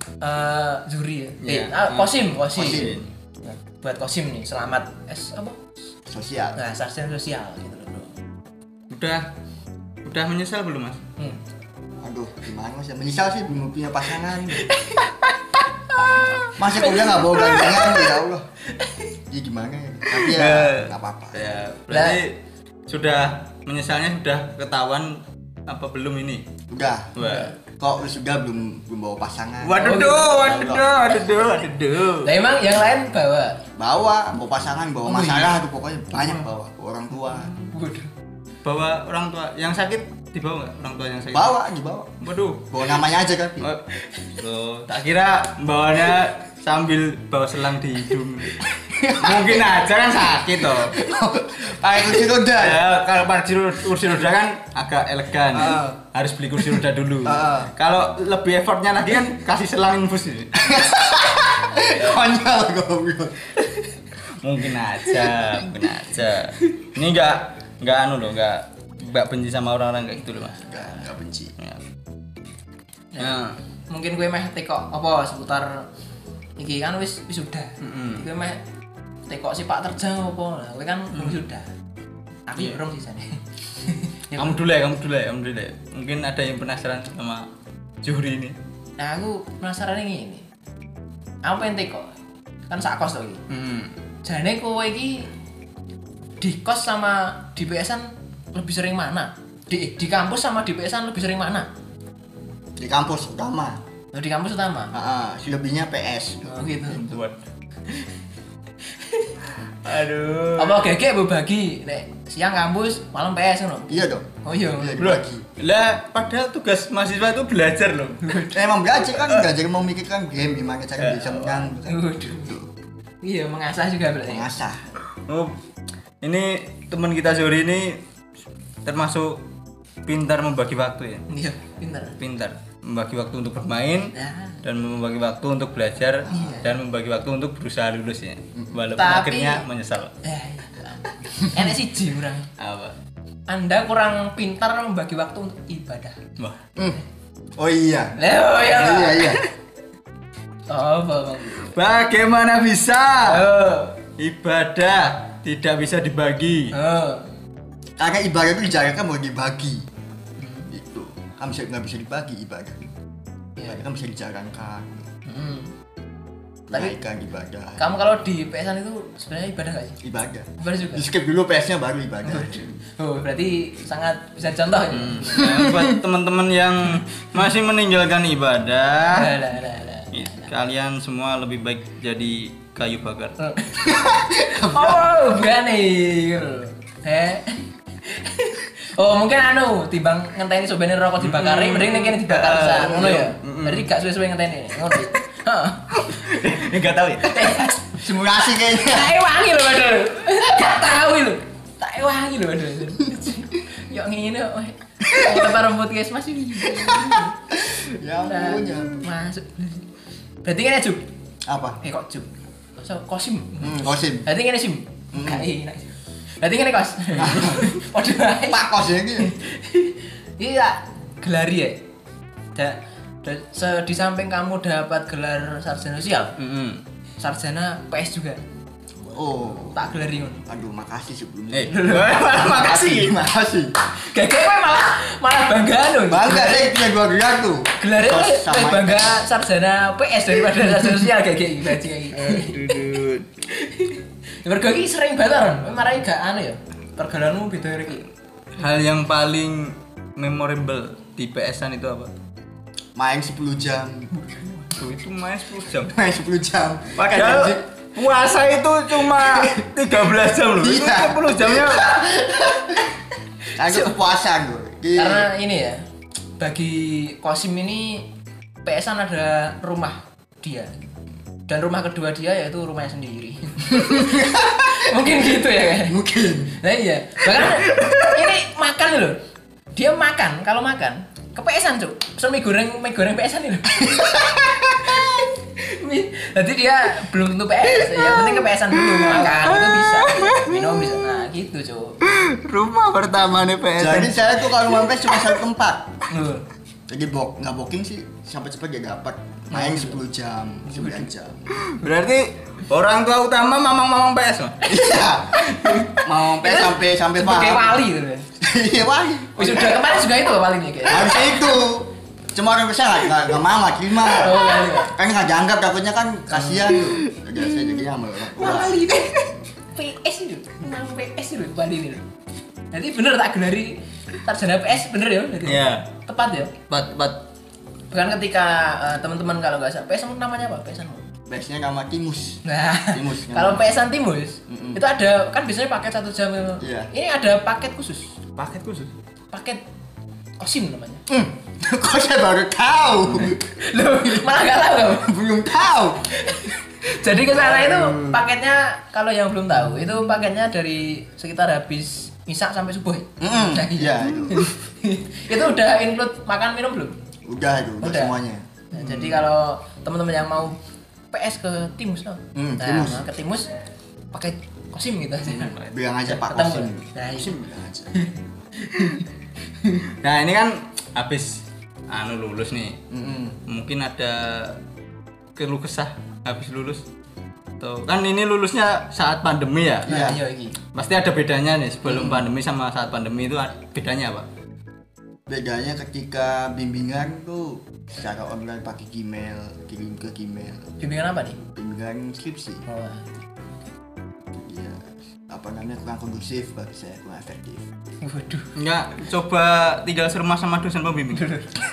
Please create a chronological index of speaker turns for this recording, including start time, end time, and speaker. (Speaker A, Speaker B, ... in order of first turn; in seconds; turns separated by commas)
Speaker A: 0.2-5.6, Speaker B: 1.4-3.0, Speaker C: 2.5-3.0, Speaker C: 6.1-6.6, Speaker A: 6.5-8.1, Speaker B: 8.9-9.3, Speaker B: 10.0-11.0, Speaker C: 12.0-14.7, Speaker A: 14.6-15.3, Speaker A: 16.4-18.2, Speaker C: 16.6-18.4, Speaker A: 18.7-19.1, Speaker C: 19.3-21.6, Speaker B: 20.1-22.4, Speaker A: 21.9-22.2, Speaker B: 22.9-25.1, Speaker B: 25.7-26.4, Speaker C: 26.7-27.1, Speaker B: 27.1-27.5, Speaker A: 27.2-27.5, Speaker C: 27.8-30.9, Speaker B: 29.6-32.3, Speaker A: 29.8-30.6, Speaker A: 32.2-33.6, Speaker C: 33.8-37.5, Speaker A: 35.1-35.5, Speaker A: 37.7-38.1, Speaker B: 38.6-41.5, Speaker C: 41.3-42.1, Speaker B: 42.2-42.7, Speaker C: 42.7-43.7, Speaker B: 43.6-48.7, Speaker C: 48.6-49.7, Speaker B: 49.2-51.0, Speaker C: 50.5-52.9, Speaker B: 52.2-60.7, Speaker C: 55.5-56.0, Speaker C: 56.6-57.7, Speaker C: 60.6-63.5, Speaker B: 64.4-70.6, Speaker A: 70.3-71.0, Speaker C: 70.6-71.5, Speaker A: 73.1-75.8, Speaker B: 73.2-73.6, Speaker A: 76.6-78.6, Speaker B: 77.8-78.3, Speaker A: 79.3-81.7, Speaker B: 81.1-81.4, Speaker A: 82.5-84.6, Speaker B: 84.3-87.5, Speaker B: 88.0-88.5, Speaker A: 89.0-90.4, Speaker A: 91.4-92.1, Speaker A: 92.7-93.4, Speaker B: 93.5-93.9, Speaker A: 94.2-95.3, Speaker A: 96.4-101.7, Speaker C: 102.8-103.8, Speaker A: 104.1-104.9, Speaker C: 104.9-106.6, Speaker A: 106.4-107.0, Speaker B: 106.9-107.4, Speaker A: 107.9-108.1, Speaker A: 108.9-109.5, Speaker B: 109.7-110.9, Speaker A: 110.5-115.1, Speaker C: 113.9-115.5, Speaker B: 115.0-118.3, Speaker A: 118.2-118.7, Speaker C: 118.5-122.7, Speaker B: 118.9-119.5, Speaker B: 121.0-121.7, Speaker A: 121.8-122.6, Speaker A: 123.2-124.5, Speaker C: 124.2-124.8, Speaker B: 125.2-125.5, Speaker B: 126.2-128.0, Speaker B: 128.8-129.4, Speaker B: 130.1-131.2, Speaker A: 131.3-132.2, Speaker B: 132.2-134.1, Speaker A: 134.1-134.6, Speaker B: 134.6-140.1, Speaker A: 136.3-136.8, Speaker C: 136.3-136.6, Speaker A: 138.9-139.7, Speaker A: 140.2-142.5, Speaker B: 142.6-142.9, Speaker A: 143.5-146.2, Speaker C: 146.8-147.0, Speaker C: 147.6-149.4, Speaker A: 148.2-149.4, Speaker A: 150.7-151.7, Speaker B: 151.6-153.5, Speaker A: 153.2-154.0, Speaker B: 154.2-156.7, Speaker A: 156.7-157.3, Speaker C: 158.0-159.8, Speaker A: 160.4-160.7, Speaker C: 160.7-162.9, Speaker C: 163.6-165.1, Speaker A: 165.2-165.7, Speaker C: 166.7-167.8, Speaker A: 167.8-170.0, Speaker C: 170.0-172.7, Speaker A: 170.6-171.1, Speaker A: 172.2-175.4, Speaker B: 174.9-179.4, Speaker C: 175.3-176.0, Speaker A: 179.1-180.5, Speaker B: 180.1-183.4, Speaker A: 183.4-196.1, Speaker C: 183.8-185.1, Speaker B: 191.2-193.9, Speaker B: 196.0-197.5, Speaker A: 197.2-198.1, Speaker C: 198.0-199.2, Speaker A: 198.7-207.3, Speaker C: 206.6-209.1, Speaker A: 208.3-209.8, Speaker A: 210.4-211.0, Speaker C: 211.5-211.8, Speaker A: 211.8-221.8, Speaker C: 213.6-214.3, Speaker C: 215.1-215.5, Speaker C: 217.2-217.7, Speaker C: 218.5-219.3, Speaker A: 222.5-226.3, Speaker B: 226.4-226.8, Speaker A: 227.2-228.4, Speaker C: 229.0-229.9, Speaker A: 229.7-230.4, Speaker C: 230.4-231.8, Speaker B: 231.5-233.2, Speaker A: 231.7-232.8, Speaker C: 232.3-233.7, Speaker A: 234.0-236.7, Speaker C: 236.1-239.2, Speaker A: 237.8-242.8, Speaker B: 242.1-243.3, Speaker A: 243.5-248.1, Speaker B: 248.6-252.1, Speaker C: 252.9-254.1, Speaker B: 254.4-255.9, Speaker C: 255.8-257.6, Speaker B: 257.0-262.0, Speaker C: 259.0-259.6, Speaker C: 260.6-262.9, Speaker C: 263.5-265.3, Speaker A: 263.7-263.9, Speaker A: 264.9-265.8, Speaker A: 266.4-268.1, Speaker A: 268.6-270.7, Speaker A: 271.5-276.0, Speaker C: 273.7-274.7, Speaker C: 275.8-276.6, Speaker A: 276.5-279.2, Speaker C: 277.4-278.0, Speaker A: 279.7-283.9, Speaker C: 283.7-285.0, Speaker A: 284.8-292.0, Speaker B: 288.7-290.9, Speaker B: 292.0-295.4, Speaker C: 293.8-295.9, Speaker A: 296.1-296.4, Speaker C: 296.9-301.4, Speaker A: 299.5-300.0, Speaker A: 300.6-301.1, Speaker B: 301.6-304.6, Speaker C: 304.6-307.8, Speaker A: 305.4-308.2, Speaker C: 308.4-310.0, Speaker A: 309.4-311.5, Speaker C: 310.9-318.8, Speaker A: 314.0-314.9, Speaker A: 316.3-316.7, Speaker A: 318.3-322.0, Speaker A: 322.7-326.5, Speaker B: 325.4-325.9, Speaker B: 326.7-327.2, Speaker A: 327.9-331.0, Speaker C: 331.3-333.7, Speaker A: 332.4-338.1, Speaker C: 334.5-334.8, Speaker C: 336.6-336.9, Speaker B: 338.4-338.9, Speaker A: 339.3-339.6, Speaker A: 340.4-341.0, Speaker C: 341.1-343.4, Speaker A: 343.2-345.1, Speaker C: 345.0-346.0, Speaker A: 346.1-356.9, Speaker C: 347.3-348.2, Speaker C: 353.2-354.5, Speaker C: 357.2-359.3, Speaker A: 357.8-358.1, Speaker A: 358.7-360.6, Speaker A: 361.1-363.5, Speaker C: 362.3-363.1, Speaker A: 364.1-367.4, Speaker C: 365.3-367.9, Speaker B: 365.4-365.7, Speaker A: 367.9-369.1, Speaker B: 370.0-372.8, Speaker C: 372.9-373.4, Speaker B: 373.5-374.6, Speaker B: 375.4-376.8, Speaker B: 377.6-380.0, Speaker C: 379.8-380.2, Speaker A: 379.9-380.6, Speaker B: 380.7-384.3, Speaker C: 381.8-382.3, Speaker C: 385.3-390.6, Speaker A: 390.8-391.4, Speaker C: 391.6-392.6, Speaker A: 392.7-393.1, Speaker C: 394.4-397.6, Speaker A: 398.0-398.5, Speaker B: 398.6-401.2, Speaker A: 401.1-401.5